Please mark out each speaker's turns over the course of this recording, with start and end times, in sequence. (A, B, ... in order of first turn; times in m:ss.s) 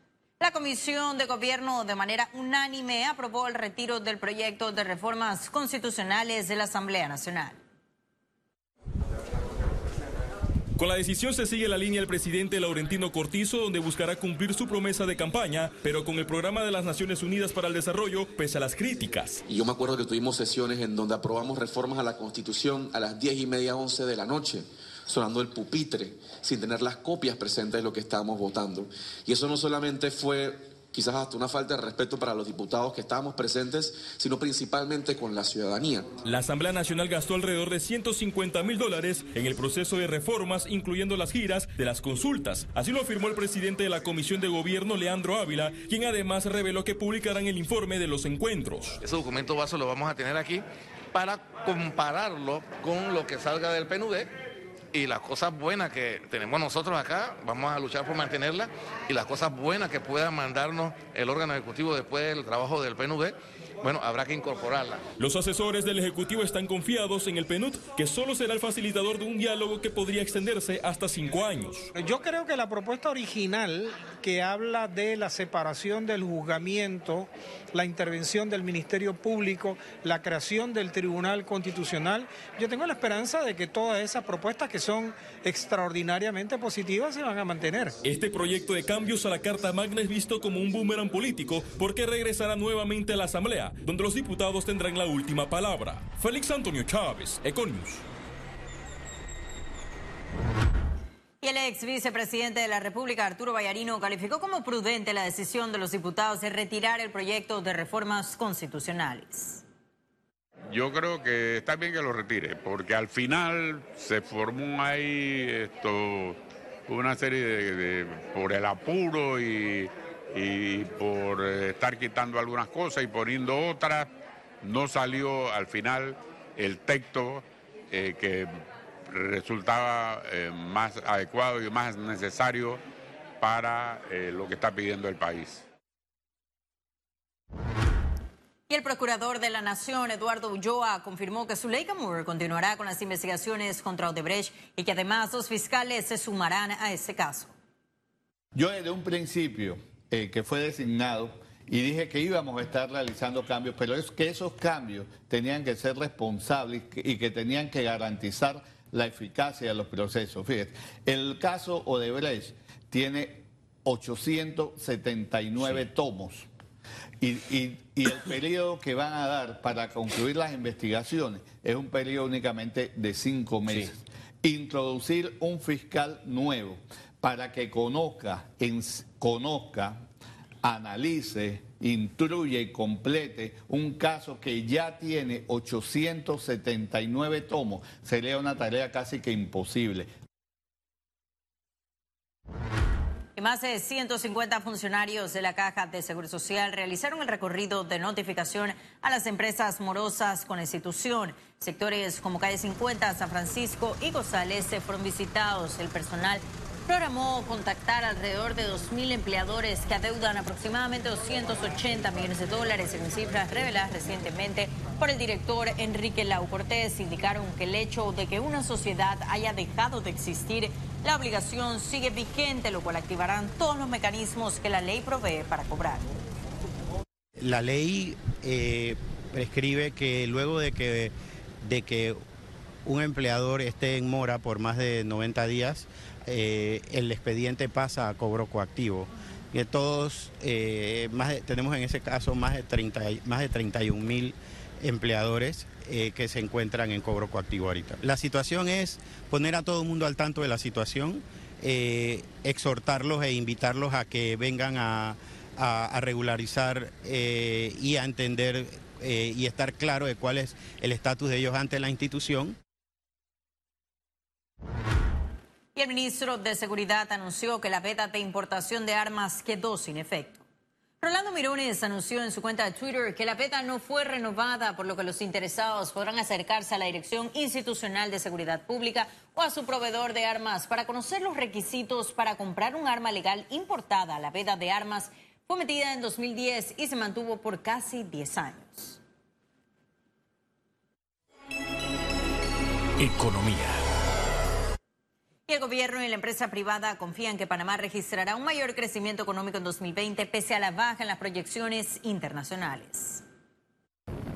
0:00.4-0:07.6 A
0:10.8-0:19.4 B
0:19.5-0:36.1 C
0:36.2-0:49.0 B
0:49.0-0:54.3 D
0:54.9-1:05.0 D
1:05.2-1:11.9 B
1:12.0-1:27.9 E
1:28.0-1:38.0 B
1:41.4-1:49.6 A
1:50.7-2:04.1 F
2:04.6-2:08.5 F
2:09.1-2:12.8 F
2:13.4-2:15.6 F
2:18.7-2:27.5 A
2:28.5-2:46.5 G
2:47.2-3:00.0 G
3:00.6-3:10.1 G
3:13.4-3:46.2 A
3:47.4-3:52.2 H
3:52.8-4:22.6 H
4:25.8-4:30.4 A
4:31.0-4:49.0 A
4:55.5-5:03.2 A